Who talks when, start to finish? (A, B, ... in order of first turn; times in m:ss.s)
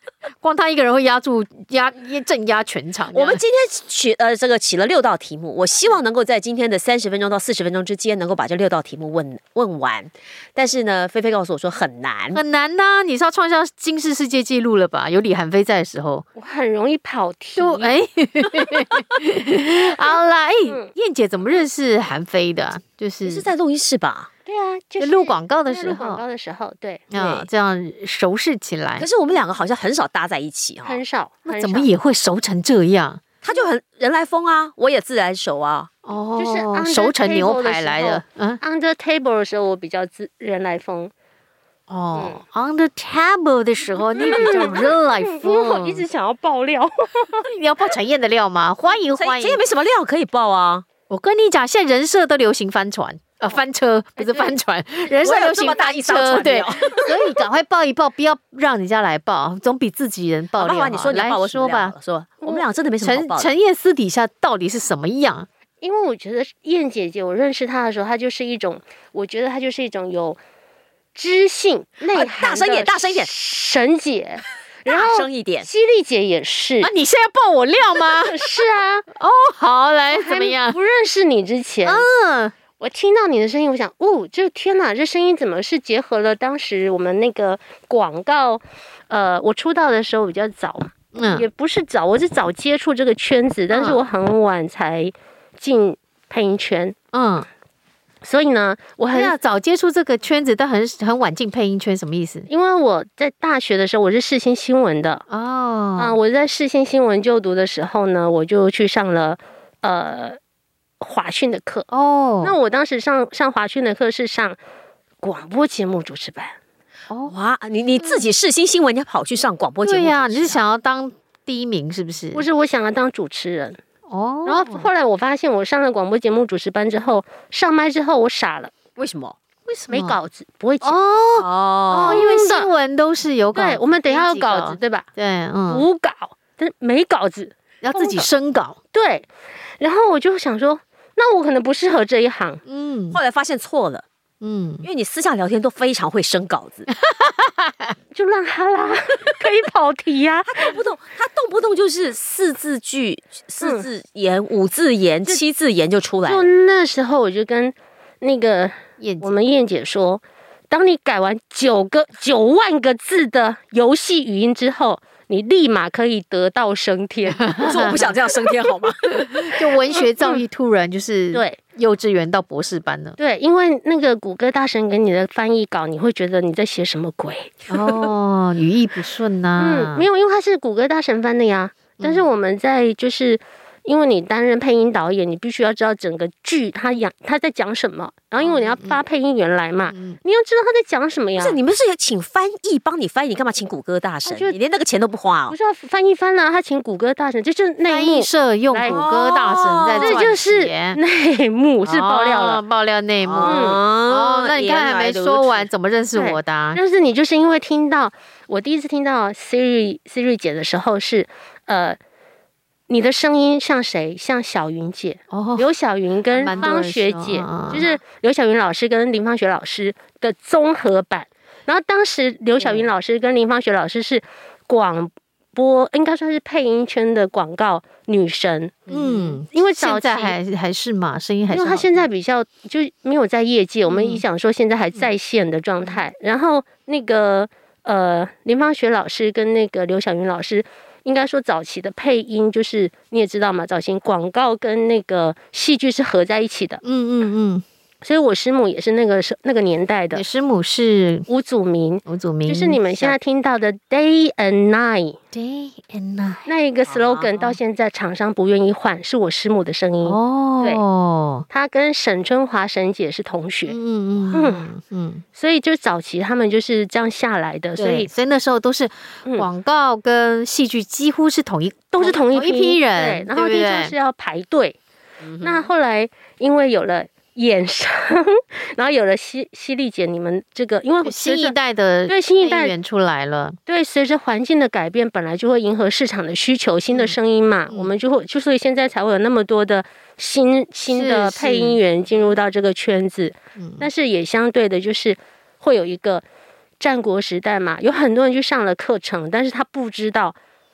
0:00.4-0:03.4 A
0:03.1-0:12.4 B
0:12.3-0:16.2 A
0:16.4-0:17.9 C
0:17.6-0:23.5 A
0:23.2-0:24.3 B
0:24.4-0:27.1 C
0:25.0-0:26.2 A
0:27.1-0:29.1 A
0:27.2-0:27.5 B
0:29.0-0:31.0 B
0:30.8-0:31.9 C
0:31.5-0:33.2 A
0:33.4-0:35.9 B
0:36.0-0:38.6 A
0:36.4-0:41.1 C
0:41.9-0:46.0 A
0:44.1-0:47.4 C
0:44.3-0:44.6 B
0:47.3-0:49.6 A
0:49.2-0:50.8 B
0:51.1-1:01.9 A
0:54.2-0:54.5 C
0:55.2-0:57.1 B
1:00.6-1:03.5 B
1:03.0-1:05.5 A
1:05.8-1:10.4 C
1:11.2-1:16.9 C
1:12.1-1:13.3 B
1:14.9-1:15.7 B
1:16.8-1:18.4 A
1:18.0-1:19.1 C
1:19.2-1:20.8 A
1:20.1-1:22.0 C
1:21.8-1:22.5 A
1:22.8-1:36.9 C
1:31.1-1:31.5 A
1:33.7-1:34.0 A
1:37.1-1:37.5 A
1:38.2-1:39.4 C
1:39.1-1:42.5 A
1:42.5-1:45.2 C
1:45.3-1:46.1 A
1:46.0-1:50.4 C
1:51.0-1:51.9 C
1:51.9-1:52.5 A
1:52.4-1:54.6 C
1:55.2-1:56.5 C
1:57.3-2:00.6 B
1:59.8-2:02.4 A
2:02.3-2:03.8 C
2:04.1-2:04.9 A
2:04.4-2:08.7 C
2:09.0-2:09.4 B
2:09.7-2:10.2 A
2:09.9-2:11.0 C
2:10.8-2:15.8 A
2:11.4-2:12.2 B
2:11.9-2:12.7 C
2:13.5-2:15.1 C
2:15.7-2:18.3 C
2:17.8-2:18.8 A
2:18.9-2:19.3 C
2:19.8-2:22.6 C
2:22.6-2:23.2 A
2:23.1-2:24.0 B
2:24.4-2:24.9 A
2:24.8-2:26.9 B
2:27.0-2:27.9 A
2:28.1-2:30.7 C
2:30.5-2:36.5 B
2:33.6-2:33.9 C
2:36.2-2:47.6 C
2:39.0-2:39.3 A
2:47.4-2:48.0 A
2:47.6-2:49.5 B
2:49.1-2:53.2 A
2:50.0-2:50.4 C
2:53.2-2:58.0 C
2:57.7-3:00.0 A
2:59.6-3:11.6 C
3:02.0-3:02.2 A
3:08.4-3:09.0 A
3:09.9-3:10.2 A
3:11.4-3:15.6 B
3:14.2-3:14.6 C
3:15.5-3:19.0 C
3:17.8-3:21.0 A
3:18.8-3:20.3 B
3:20.0-3:22.6 C
3:21.8-3:26.8 A
3:23.2-3:25.7 B
3:23.4-3:23.8 C
3:26.1-3:32.0 C
3:32.9-3:50.4 C
3:35.3-3:35.7 A
3:36.3-3:37.8 A
3:48.9-3:49.4 B
3:48.9-3:52.0 A
3:51.5-4:06.8 C
3:53.9-3:54.2 A
4:06.8-4:07.6 A
4:08.0-4:10.2 C
4:10.1-4:11.3 A
4:11.3-4:15.2 C
4:12.0-4:13.2 A
4:15.3-4:16.5 A
4:16.4-4:20.8 C
4:16.9-4:17.3 B
4:20.0-4:21.4 A
4:21.5-4:23.8 C
4:23.6-4:25.2 A
4:24.3-4:24.7 C
4:25.4-4:28.1 C
4:27.8-4:33.9 A
4:31.9-4:34.8 C
4:35.2-4:35.7 B
4:35.4-4:41.6 C
4:41.0-4:43.6 A
4:42.1-4:42.7 C
4:43.7-4:56.2 C
4:50.9-4:51.8 A
4:53.6-4:53.8 A
4:56.8-5:00.4 C